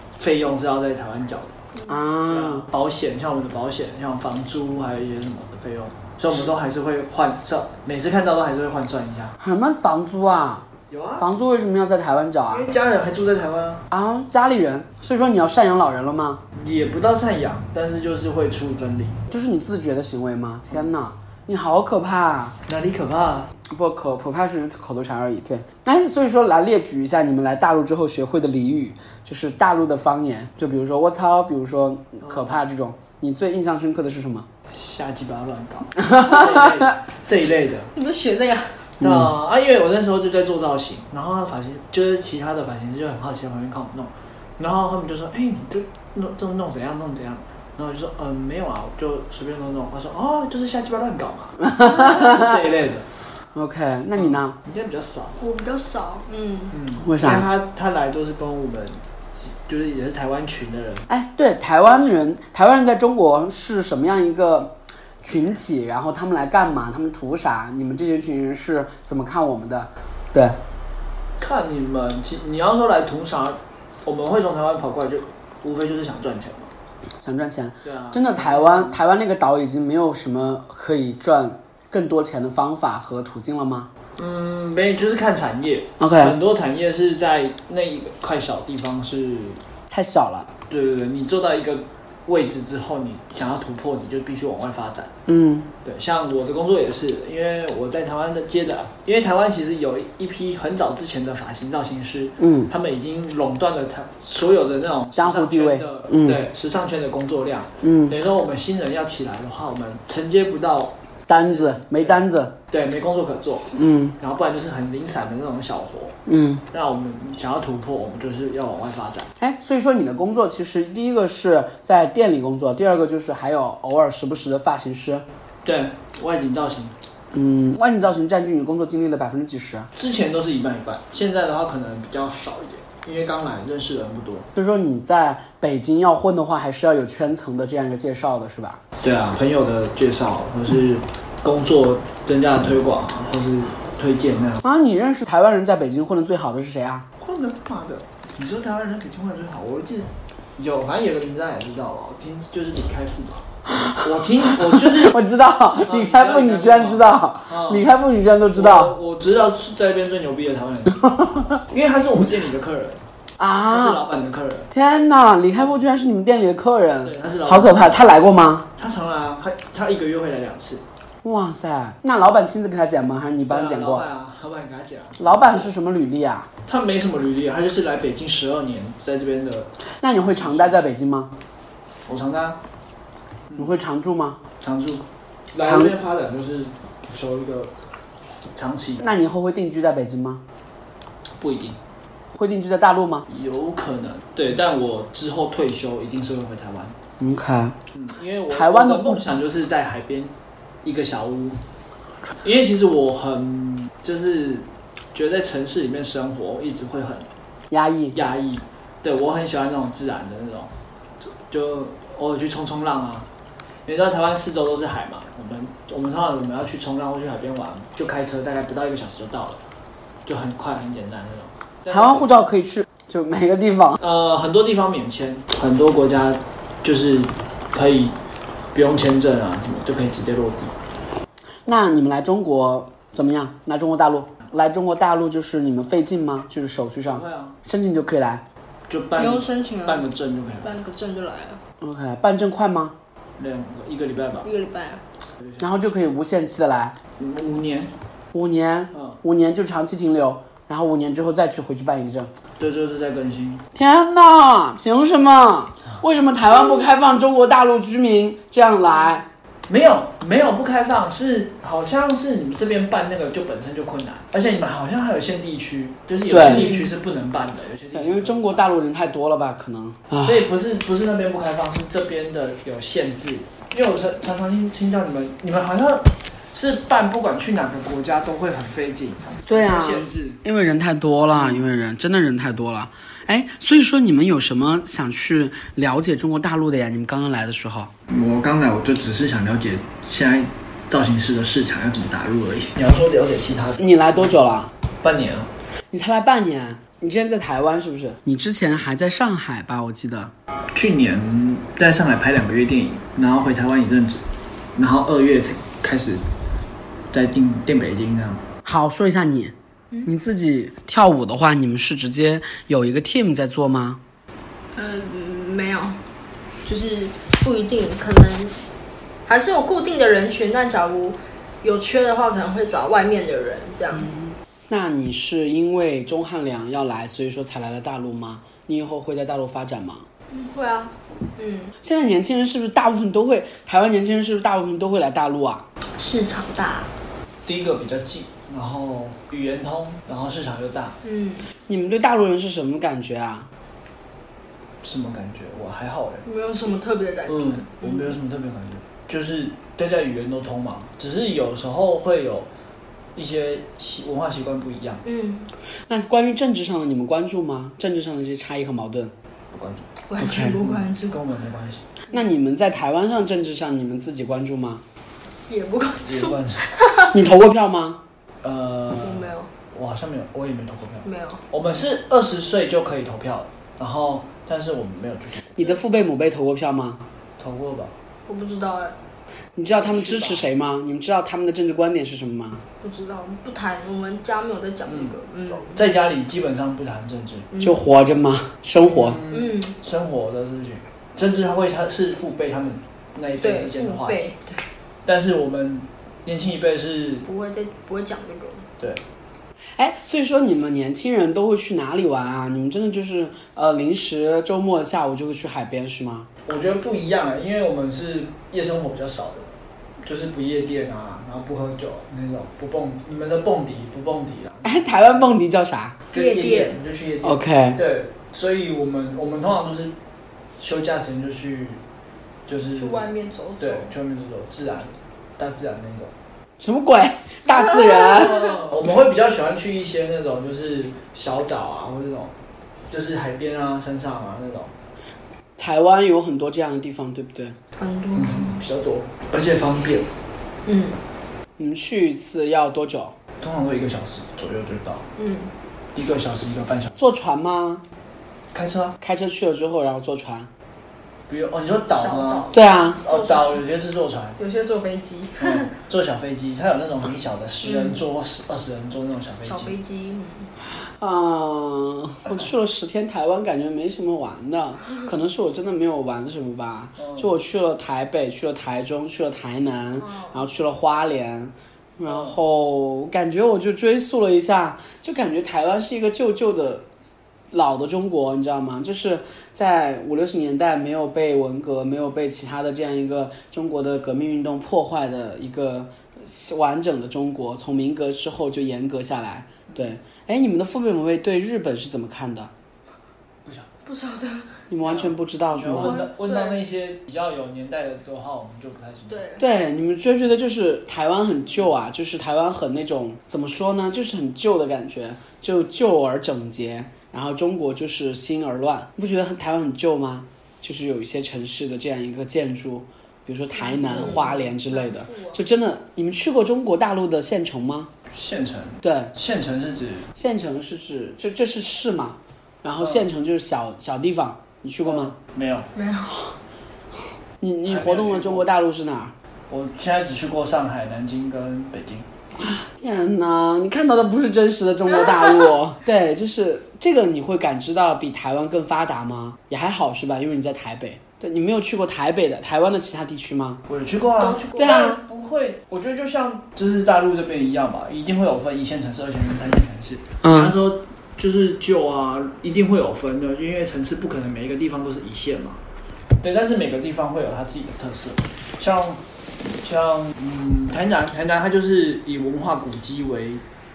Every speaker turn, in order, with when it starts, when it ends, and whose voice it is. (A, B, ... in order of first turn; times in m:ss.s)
0:00.2-0:01.6 A
0:01.9-0:02.7 B
0:02.3-0:09.4 A
0:09.4-0:10.6 B
0:10.9-0:11.3 A
0:11.2-0:12.7 B
0:12.5-0:13.9 A
0:13.9-0:16.4 B
0:16.6-0:19.2 A
0:19.3-0:22.6 B
0:22.7-0:23.5 A
0:23.7-0:34.5 B
0:32.2-0:32.5 A
0:34.7-0:37.9 A
0:36.0-0:36.9 B
0:37.9-0:38.9 C
0:39.0-0:39.3 B
0:39.0-0:53.1 A
0:51.6-0:52.6 B
0:53.5-0:54.6 B
0:54.2-0:55.4 A
0:55.4-0:56.8 C
0:56.7-1:01.1 A
0:57.0-0:57.5 B
1:01.1-1:10.6 B
1:11.4-1:16.7 A
1:17.2-1:23.9 B
1:17.8-1:19.0 A
1:24.2-1:29.6 A
1:26.0-1:26.4 B
1:29.9-1:30.5 B
1:30.7-1:35.1 A
1:35.3-1:35.7 B
1:35.8-1:56.2 A
1:42.4-1:42.7 B
1:45.1-1:46.4 B
1:47.8-1:48.2 B
1:51.3-1:52.6 B
1:53.8-1:54.2 B
1:56.3-1:56.6 B
1:56.7-1:59.3 A
1:59.4-2:05.2 B
2:05.6-2:06.9 A
2:07.3-2:09.9 B
2:10.0-2:14.5 A
2:14.6-2:18.8 B
2:19.0-2:24.6 A
2:24.6-2:27.1 B
2:27.2-2:35.2 A
2:33.7-2:39.0 B
2:35.8-2:37.9 A
2:38.5-2:43.0 A
2:43.4-2:44.0 B
2:43.6-2:44.7 A
2:44.7-2:48.7 B
2:47.0-2:48.2 A
2:48.8-2:50.8 A
2:51.2-2:54.1 B
2:53.5-2:55.7 A
2:55.2-2:56.5 B
2:56.7-2:59.7 A
3:00.0-3:01.3 B
3:00.2-3:00.8 A
3:02.1-3:02.6 A
3:03.6-3:04.4 B
3:04.6-3:07.7 A
3:05.6-3:05.9 B
3:08.6-3:09.1 A
3:09.0-3:10.4 B
3:11.4-3:11.8 A
3:12.3-3:13.3 B
3:13.3-3:17.0 A
3:17.2-3:17.8 B
3:18.0-3:20.3 A
3:18.5-3:19.2 B
3:20.8-3:21.6 A
3:22.4-3:27.3 A
3:27.7-3:28.2 B
3:28.1-3:30.7 A
3:31.5-3:33.3 A
3:33.9-3:39.6 A
3:40.3-3:42.4 A
3:41.9-3:44.0 B
3:44.0-3:48.2 A
3:48.7-3:50.8 A
3:51.6-3:58.4 B
3:57.1-3:57.6 A
3:58.9-4:00.7 A
3:59.2-4:00.0 C
4:00.6-4:01.6 C
4:01.8-4:03.0 B
4:03.4-4:04.5 A
4:04.4-4:05.0 C
4:05.6-4:07.0 B
4:07.2-4:07.9 A
4:08.3-4:12.3 B
4:08.9-4:09.2 A
4:12.6-4:13.6 A
4:13.8-4:19.3 B
4:19.7-4:28.7 A
4:26.3-4:26.7 B
4:26.4-4:26.9 C
4:27.9-4:30.4 B
4:30.2-4:40.4 A
4:39.5-4:47.9 B
4:41.3-4:41.7 A
4:48.1-4:54.3 A
4:53.8-4:54.7 B
4:55.0-4:55.5 A
4:55.9-5:00.3 B
5:00.7-5:04.2 A
5:04.8-5:06.2 A
5:07.1-5:08.5 A
5:08.6-5:14.0 B
5:14.7-5:16.0 C
5:16.6-5:18.6 C
5:19.3-5:24.1 C
5:23.9-5:30.1 B
5:30.3-5:31.7 C
5:31.8-5:35.7 B
5:36.0-5:36.9 C
5:37.5-5:41.0 A
5:41.0-5:41.5 C
5:41.7-5:43.5 B
5:44.8-5:46.2 A
5:46.2-5:48.1 C
5:47.3-5:52.5 A
5:53.2-5:55.0 A
5:55.0-5:55.5 C
5:55.9-5:59.1 B
5:59.5-5:59.9 A
6:00.1-6:01.2 C
6:00.2-6:00.6 B
6:00.6-6:01.8 A
6:02.1-6:04.8 B
6:05.5-6:07.2 C
6:06.1-6:06.6 A
6:07.1-6:08.0 B
6:08.4-6:15.8 A
6:09.0-6:09.5 C
6:11.0-6:11.4 C
6:15.6-6:17.0 B
6:17.4-6:17.9 A
6:18.3-6:19.0 C
6:19.6-6:22.6 B
6:19.7-6:20.5 A
6:22.8-6:25.8 C
6:24.9-6:27.5 A
6:27.5-6:27.8 C
6:27.6-6:29.2 B
6:28.8-6:34.3 A
6:29.3-6:29.8 C
6:33.4-6:34.6 C
6:35.0-6:37.2 A
6:37.2-6:38.7 C
6:39.8-6:46.3 B
6:46.5-6:55.3 A
6:54.6-6:56.0 B
6:56.1-7:00.0 A
6:56.1-6:56.8 C
6:57.2-6:57.8 B
7:00.6-7:01.8 A
7:02.5-7:03.1 A
7:02.7-7:03.9 C
7:03.6-7:06.1 A
7:06.6-7:08.6 B
7:07.6-7:08.3 C
7:08.1-7:12.3 A
7:12.9-7:14.7 A
7:15.6-7:17.6 B
7:17.8-7:18.6 C
7:18.2-7:20.1 A
7:20.7-7:21.0 C
7:21.6-7:23.2 B
7:23.4-7:25.1 A
7:25.2-7:25.5 C
7:26.0-7:27.0 A
7:27.0-7:27.8 B
7:28.5-7:29.0 A
7:29.0-7:30.5 B
7:31.3-7:32.5 A
7:31.9-7:33.6 C
7:32.5-7:33.0 B
7:33.0-7:34.4 A
7:34.4-7:35.7 C
7:35.4-7:39.7 A
7:37.6-7:38.0 C
7:39.4-7:40.5 C
7:40.8-7:56.9 B
7:47.0-7:47.3 A
7:50.0-7:50.4 C
7:52.0-7:52.4 A
7:57.5-8:12.5 B
8:13.8-8:14.6 C
8:14.7-8:16.0 B
8:14.8-8:19.2 A
8:15.8-8:16.6 C
8:19.1-8:19.4 C
8:19.4-8:37.9 B
8:33.5-8:35.4 C
8:38.1-8:40.1 A
8:38.8-8:39.1 B
8:40.2-8:45.1 B
8:42.8-8:43.1 A
8:44.8-8:45.7 A
8:45.7-8:46.2 C
8:47.4-8:49.1 B
8:47.7-8:48.5 A
8:49.5-8:52.1 A
8:52.4-9:03.6 B
9:03.7-9:15.6 A
9:04.2-9:05.0 C
9:04.6-9:05.0 B
9:10.2-9:10.6 B
9:16.2-9:23.4 A